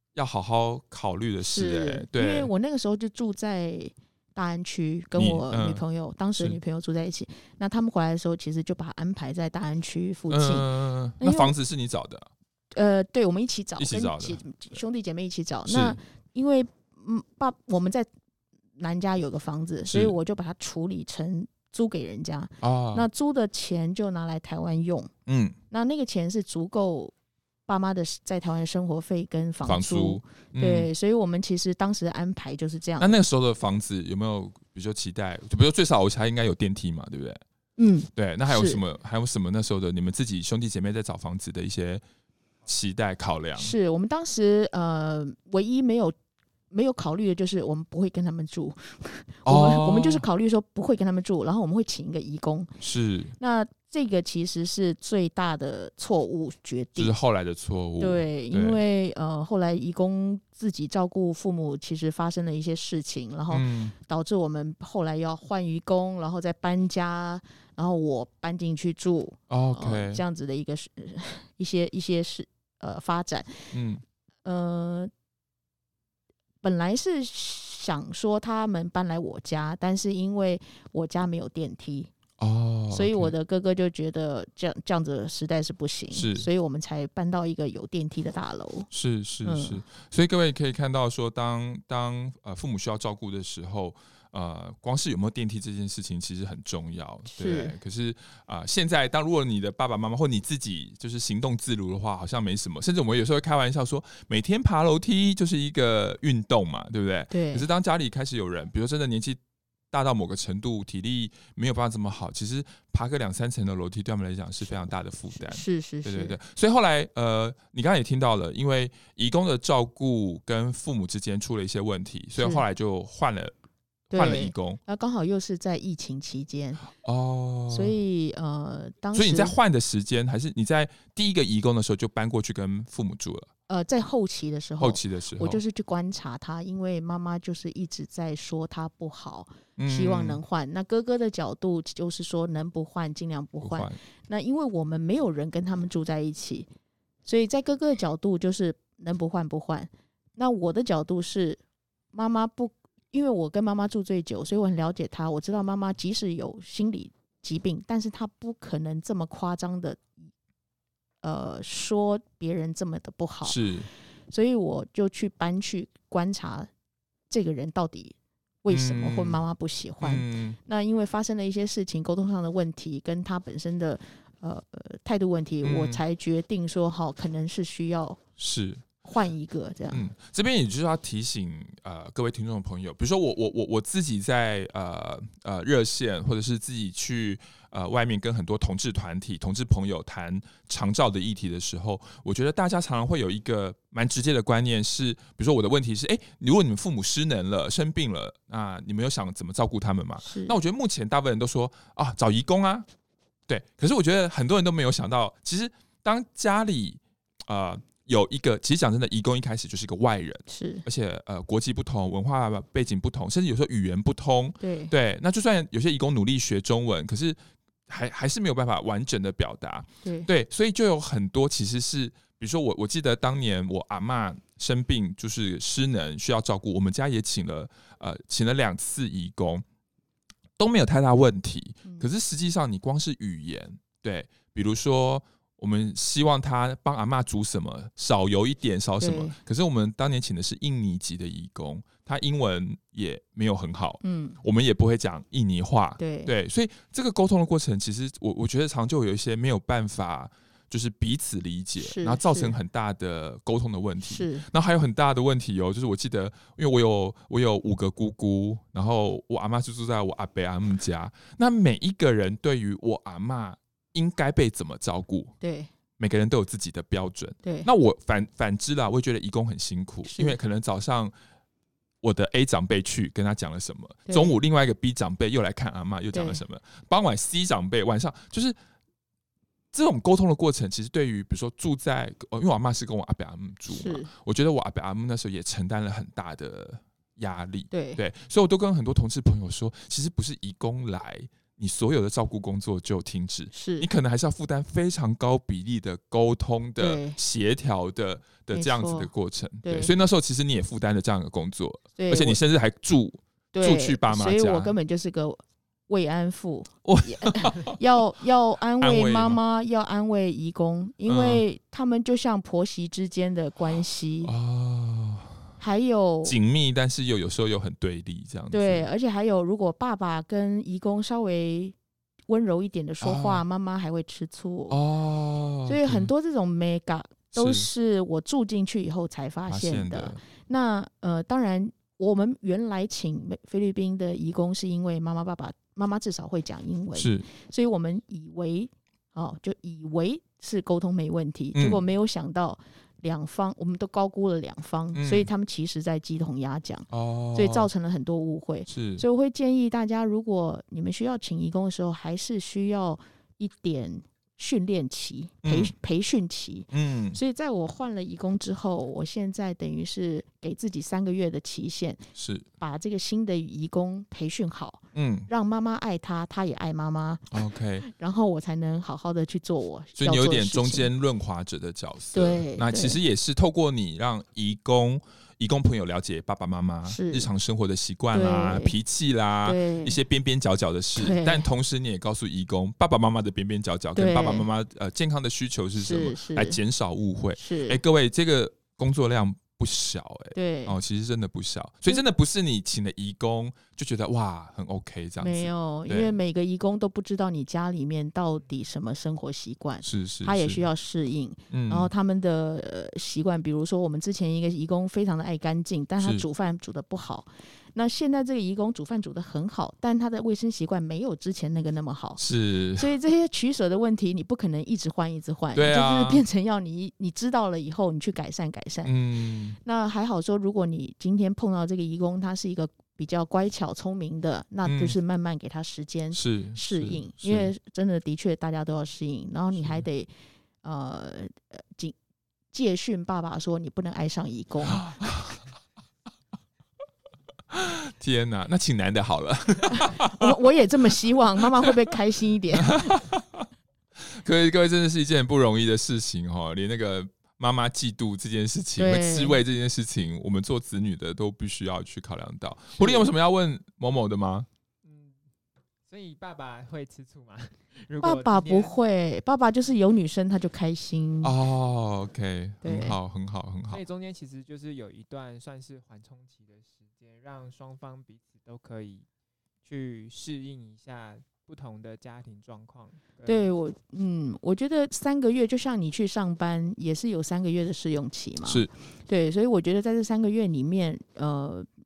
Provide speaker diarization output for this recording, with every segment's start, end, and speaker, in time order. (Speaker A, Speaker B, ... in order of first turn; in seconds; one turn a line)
Speaker A: 0.1-2.5
Speaker B: 1.4-10.7
Speaker A: 5.2-5.8
Speaker A: 10.3-12.3
Speaker B: 11.2-11.5
Speaker B: 12.8-18.1
Speaker A: 13.8-14.4
Speaker A: 15.7-16.0
Speaker B: 18.8-25.1
Speaker A: 19.9-20.2
Speaker A: 22.6-23.1
Speaker A: 25.3-25.6
Speaker B: 25.7-27.1
Speaker B: 27.7-33.2
Speaker A: 29.6-30.9
Speaker A: 33.0-37.4
Speaker B: 37.8-38.8
Speaker A: 38.2-42.0
Speaker A: 42.7-43.8
Speaker B: 43.6-46.1
Speaker B: 46.7-52.7
Speaker A: 49.5-50.2
Speaker A: 52.8-53.3
Speaker B: 53.4-57.1
Speaker A: 57.0-58.8
Speaker B: 58.0-73.7
Speaker A: 63.5-64.0
Speaker A: 69.5-70.2
Speaker A: 73.7-74.0
Speaker B: 74.5-75.1
Speaker B: 76.6-82.1
Speaker A: 82.4-83.3
Speaker B: 82.9-88.9
Speaker A: 86.1-86.5
Speaker A: 88.9-109.4
Speaker B: 89.4-89.8
Speaker B: 97.3-97.8
Speaker B: 107.3-107.7
Speaker A: 109.9-123.5
Speaker B: 115.3-116.4
Speaker B: 122.4-122.7
Speaker B: 124.1-126.9
Speaker A: 124.1-124.8
Speaker A: 127.0-128.0
Speaker B: 127.7-129.6
Speaker A: 129.1-133.5
Speaker B: 133.7-146.7
Speaker A: 134.8-135.6
Speaker A: 139.8-140.4
Speaker A: 143.6-144.0
Speaker B: 147.2-151.6
Speaker B: 152.1-160.1
Speaker B: 161.2-163.6
Speaker A: 163.4-163.9
Speaker B: 164.3-166.7
Speaker B: 167.3-178.2
Speaker A: 168.7-169.4
Speaker A: 170.0-170.6
Speaker A: 175.6-176.0
Speaker A: 178.4-178.9
Speaker B: 179.0-180.1
Speaker A: 179.9-202.9
Speaker B: 200.2-200.6
Speaker A: 203.5-229.6
Speaker B: 210.5-210.8
Speaker B: 214.6-214.9
Speaker B: 220.0-220.3
Speaker A: 230.6-265.3
Speaker B: 239.0-239.4
Speaker B: 244.0-244.4
Speaker B: 246.0-246.3
Speaker B: 251.8-252.6
Speaker B: 254.0-254.5
Speaker B: 265.4-265.7
Speaker A: 266.0-271.1
Speaker B: 267.4-267.7
Speaker B: 270.1-270.4
Speaker A: 272.0-278.6
Speaker B: 274.1-274.4
Speaker B: 276.1-276.4
Speaker A: 279.7-304.7
Speaker B: 283.7-284.1
Speaker B: 287.7-288.0
Speaker B: 293.5-293.9
Speaker B: 296.8-297.2
Speaker B: 298.5-299.1
Speaker B: 299.6-299.9
Speaker B: 302.0-302.4
Speaker B: 303.5-314.3
Speaker A: 306.9-307.8
Speaker A: 308.8-309.4
Speaker A: 311.1-311.4
Speaker A: 314.2-315.4
Speaker B: 315.6-316.4
Speaker A: 316.2-318.9
Speaker B: 318.5-321.8
Speaker B: 322.3-324.8
Speaker A: 323.0-323.4
Speaker A: 324.7-326.1
Speaker B: 325.7-362.0
Speaker A: 327.3-327.7
Speaker A: 329.5-330.2
Speaker A: 337.0-337.2
Speaker A: 341.6-341.8
Speaker A: 344.9-345.3
Speaker A: 346.9-347.7
Speaker A: 348.7-349.0
Speaker A: 355.4-355.7
Speaker A: 356.7-357.2
Speaker A: 362.2-362.5
Speaker B: 362.6-367.3
Speaker A: 364.9-365.3
Speaker A: 367.3-367.9
Speaker B: 367.8-370.9
Speaker A: 370.0-396.1
Speaker B: 372.1-373.0
Speaker B: 376.9-377.3
Speaker B: 378.1-378.8
Speaker B: 379.4-380.0
Speaker B: 381.0-381.5
Speaker B: 383.9-384.5
Speaker B: 385.8-386.6
Speaker B: 387.4-387.8
Speaker B: 390.3-390.8
Speaker B: 395.2-412.2
Speaker A: 399.8-400.7
Speaker A: 401.5-401.9
Speaker A: 406.0-406.2
Speaker A: 412.2-412.9
Speaker B: 412.8-418.9
Speaker A: 415.6-416.2
Speaker A: 418.9-419.6
Speaker B: 419.6-430.1
Speaker A: 424.6-425.0
Speaker A: 426.1-427.5
Speaker A: 429.6-429.8
Speaker B: 430.6-431.9
Speaker B: 432.5-434.9
Speaker A: 434.7-435.4
Speaker A: 437.5-440.4
Speaker B: 439.7-442.9
Speaker A: 441.4-441.7
Speaker A: 442.6-454.5
Speaker B: 448.8-449.4
Speaker B: 452.8-453.1
Speaker C: 454.8-455.2
Speaker C: 455.9-458.8
Speaker B: 458.0-461.4
Speaker A: 461.2-463.8
Speaker B: 462.6-463.0
Speaker C: 463.7-469.1
Speaker C: 469.6-473.5
Speaker B: 473.2-481.7
Speaker A: 478.4-478.7